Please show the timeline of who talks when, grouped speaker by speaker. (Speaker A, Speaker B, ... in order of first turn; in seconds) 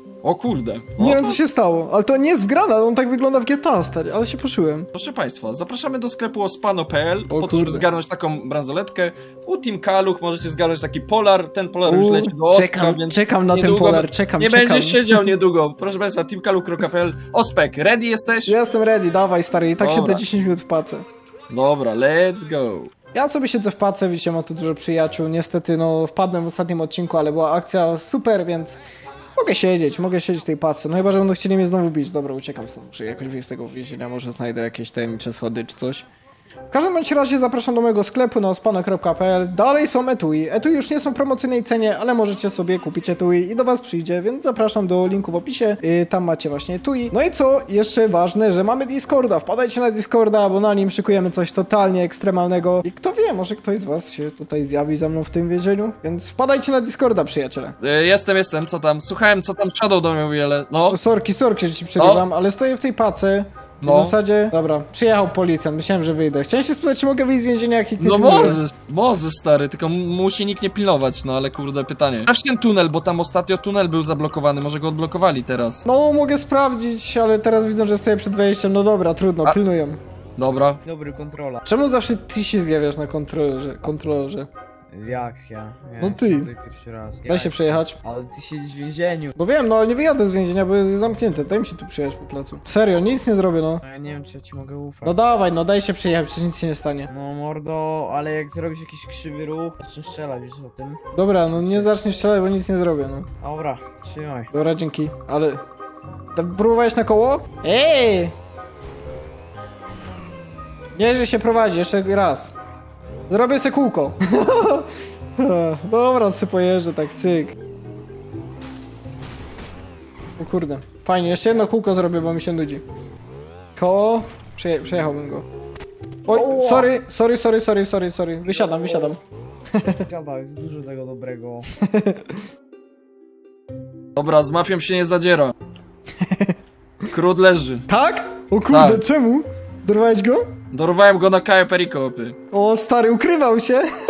Speaker A: 0.2-1.4, 4.9-18.6, 19.8-20.2, 21.5-22.9, 57.8-61.0, 62.0-62.2, 63.8-64.2, 68.0-75.8, 80.4-80.8, 134.2-135.5, 137.1-137.9, 138.7-139.0, 140.7-142.4
Speaker B: 1.0-4.9, 7.3-7.9, 11.8-15.3, 18.5-21.1, 23.1-28.8, 29.4-36.0, 36.7-57.8, 60.9-68.6, 75.8-80.0, 81.7-84.5, 86.0-86.5, 87.3-88.0, 89.4-93.8, 95.0-97.1, 101.1-103.3, 104.5-105.6, 106.3-108.3, 111.0-112.5, 113.3-117.5, 120.4-122.8, 123.8-125.5, 126.3-129.2, 129.8-130.0, 131.8-132.4, 136.2-136.6, 137.9-140.5, 142.5-143.9
Speaker C: 80.8-81.6, 84.9-89.3, 93.8-95.2, 97.1-101.0, 101.5-101.9, 103.4-104.5, 126.3-126.9, 128.7-129.2, 129.9-131.7